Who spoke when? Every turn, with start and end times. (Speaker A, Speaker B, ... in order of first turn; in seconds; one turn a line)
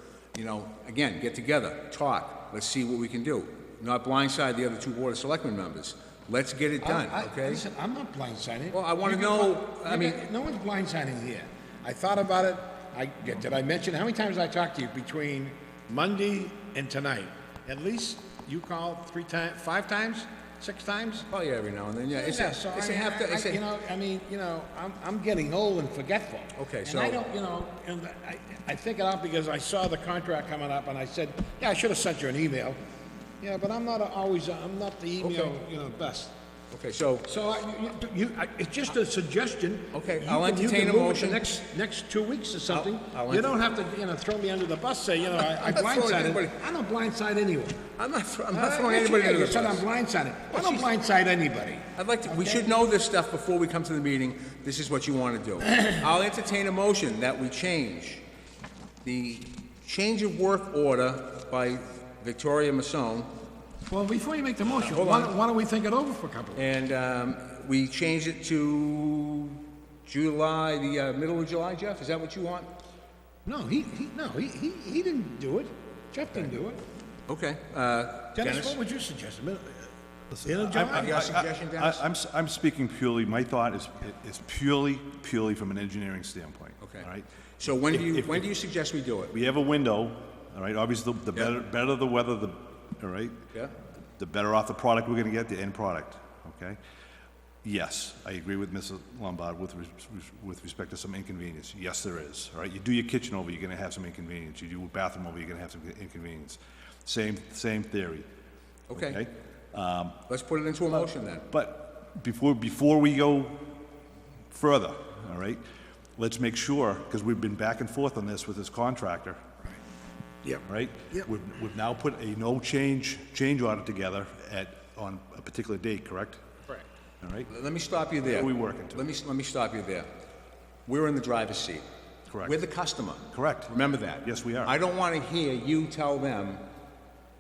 Speaker A: 0.3-7.6
Speaker B: 6.8-21.3
Speaker A: 8.7-10.2
Speaker A: 21.3-23.6
Speaker B: 22.1-32.8
Speaker A: 26.6-27.2
Speaker B: 33.4-36.4
Speaker A: 35.2-35.6
Speaker A: 36.7-37.3
Speaker B: 37.2-47.9
Speaker A: 39.9-41.5
Speaker A: 42.7-43.6
Speaker A: 45.4-46.6
Speaker A: 48.0-49.9
Speaker B: 48.5-52.7
Speaker A: 50.5-50.9
Speaker A: 52.0-58.2
Speaker A: 59.0-63.3
Speaker B: 63.9-66.6
Speaker A: 64.7-65.4
Speaker A: 66.5-72.7
Speaker B: 73.5-76.8
Speaker A: 77.3-78.8
Speaker B: 78.3-81.1
Speaker C: 80.3-88.5
Speaker A: 80.8-82.0
Speaker A: 86.8-87.1
Speaker A: 87.6-89.3
Speaker C: 89.3-93.4
Speaker C: 94.2-96.8
Speaker C: 97.6-108.3
Speaker A: 108.9-109.2
Speaker C: 108.9-110.2
Speaker A: 110.3-111.5
Speaker C: 111.5-113.8
Speaker C: 114.5-115.6
Speaker C: 116.2-119.4
Speaker B: 120.4-121.3
Speaker C: 120.7-126.4
Speaker C: 127.2-127.5
Speaker A: 127.5-130.1
Speaker C: 128.2-129.0
Speaker A: 130.9-131.8
Speaker C: 132.3-132.6
Speaker A: 132.4-136.6
Speaker C: 133.3-134.7